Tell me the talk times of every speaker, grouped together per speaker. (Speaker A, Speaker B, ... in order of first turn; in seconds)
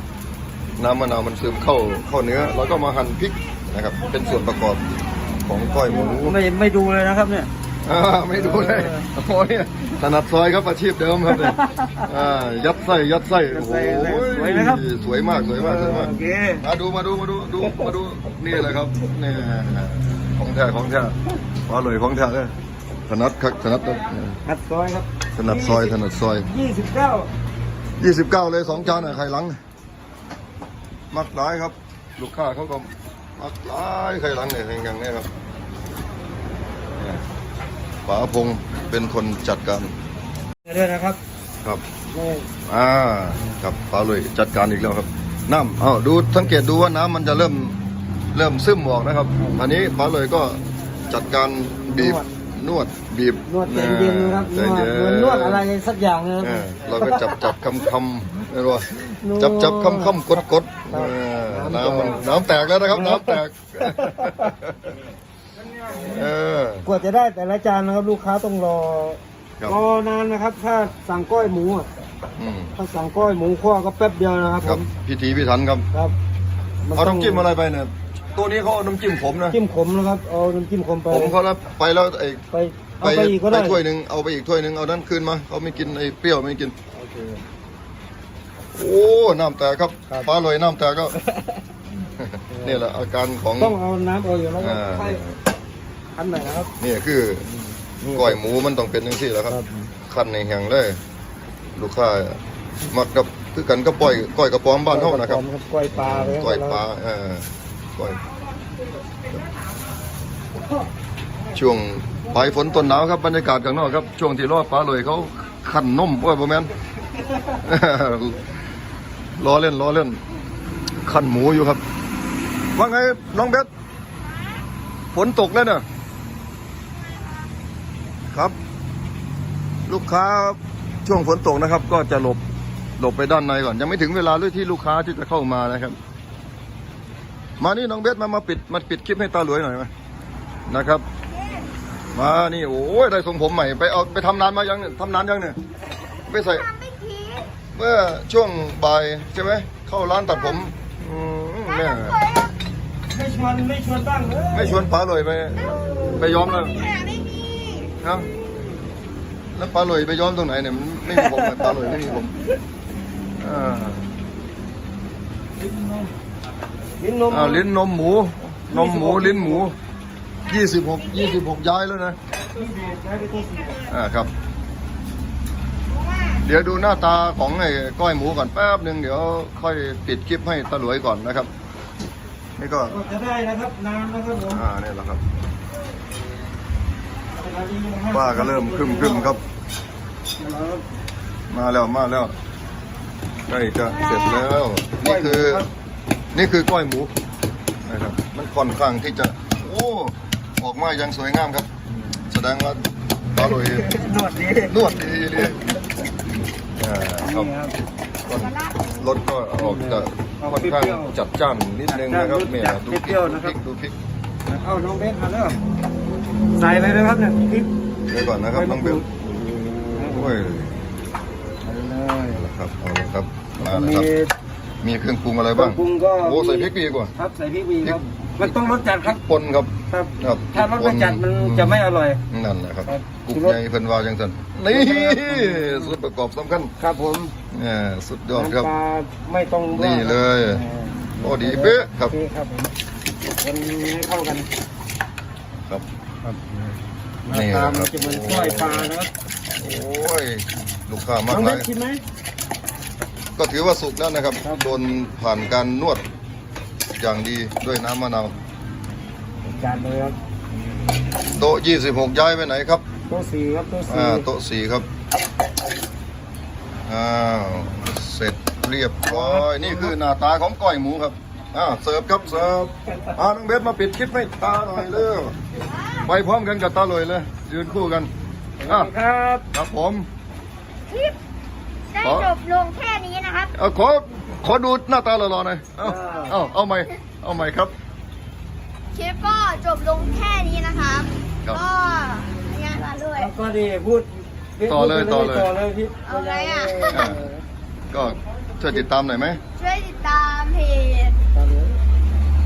Speaker A: 0.8-4.8, 5.4-6.4, 7.8-21.1, 21.7-22.5, 23.1-24.4, 25.4-26.5, 28.0-29.6, 31.1-35.3, 37.0-37.2, 38.0-40.0, 42.7-47.8, 48.3-55.7, 56.4-64.9, 66.0-66.9, 72.4-72.7, 74.6-75.8, 77.0-79.6, 81.1-82.4, 83.0-86.7, 88.7-91.1, 92.2-93.8, 94.6-95.4, 96.8-97.5, 98.0-101.0, 101.7-102.4, 102.9-105.4, 105.9-108.2, 111.5-116.7, 117.6-118.5, 119.4-120.2, 121.0-121.8, 122.7-123.7, 125.1-125.8, 128.3-128.6, 129.8-132.4, 133.0-136.0, 137.6-139.9, 140.7-141.0, 142.1-145.6, 146.3-146.7, 147.7-152.2, 154.5-156.7, 158.0-158.3, 159.5-162.3, 163.4-164.0, 167.3-169.7, 170.4-172.2, 173.9-174.3, 176.4-181.5, 182.6-183.0, 184.5-185.2, 188.1-189.4, 191.5-192.3, 193.5-195.7, 196.3-197.1, 197.8-201.7, 202.2-203.9, 204.6-205.6, 206.8-207.5, 208.2-213.9, 218.1-220.8, 222.3-224.1, 224.8-227.1, 227.8-236.7, 237.5-238.7, 239.7-240.6, 241.2-242.1, 247.3-248.9, 249.6-251.7, 253.4-256.0, 257.0-258.3, 261.2-262.8, 263.9-264.9, 266.9-275.3, 276.0-278.1, 278.6-278.9, 279.5-280.1, 282.0-282.3, 283.5-287.7, 294.6-295.5, 296.9-297.2, 297.9-299.4
Speaker B: 6.1-7.5, 8.3-9.0, 11.3-12.0, 13.5-14.8, 15.6-16.6, 17.6-17.9, 24.4-27.3, 40.6-41.2, 42.1-42.5, 51.9-52.3, 53.5-57.4, 59.2-60.2, 60.9-62.3, 62.9-64.5, 66.8-71.9, 72.8-74.9, 76.8-77.5, 79.5-81.3, 82.5-83.8, 86.9-87.4, 91.2-91.6, 92.5-92.8, 93.6-95.2, 96.2-96.7, 97.5-98.4, 99.5-99.9, 104.9-106.8, 153.1-154.8, 167.0-167.6, 168.7-169.6, 172.5-173.8, 182.9-184.6, 187.3-189.4, 190.4-190.8, 195.0-195.7, 203.4-204.8, 207.2-207.8, 209.6-211.1, 211.9-213.5, 214.5-215.6, 216.5-217.7, 218.5-219.0, 219.9-220.3, 221.6-222.4, 223.6-224.3, 225.5-229.2, 229.9-232.2, 232.8-233.6, 234.7-236.0, 236.8-237.3, 238.3-242.7, 243.4-244.5, 246.2-246.7, 247.2-249.1, 251.3-252.0, 254.4-254.8, 259.4-260.2, 263.1-264.3, 269.1-269.9, 278.6-279.4, 285.8-286.4, 293.1-297.4, 301.3-301.8
Speaker C: 141.4-141.7, 146.3-147.5, 151.6-152.5, 155.6-157.9, 175.9-176.4, 193.8-194.5, 208.3-209.1, 275.7-276.1, 280.9-281.1, 281.9-283.5, 288.9-293.3, 296.1-297.1, 299.6-301.2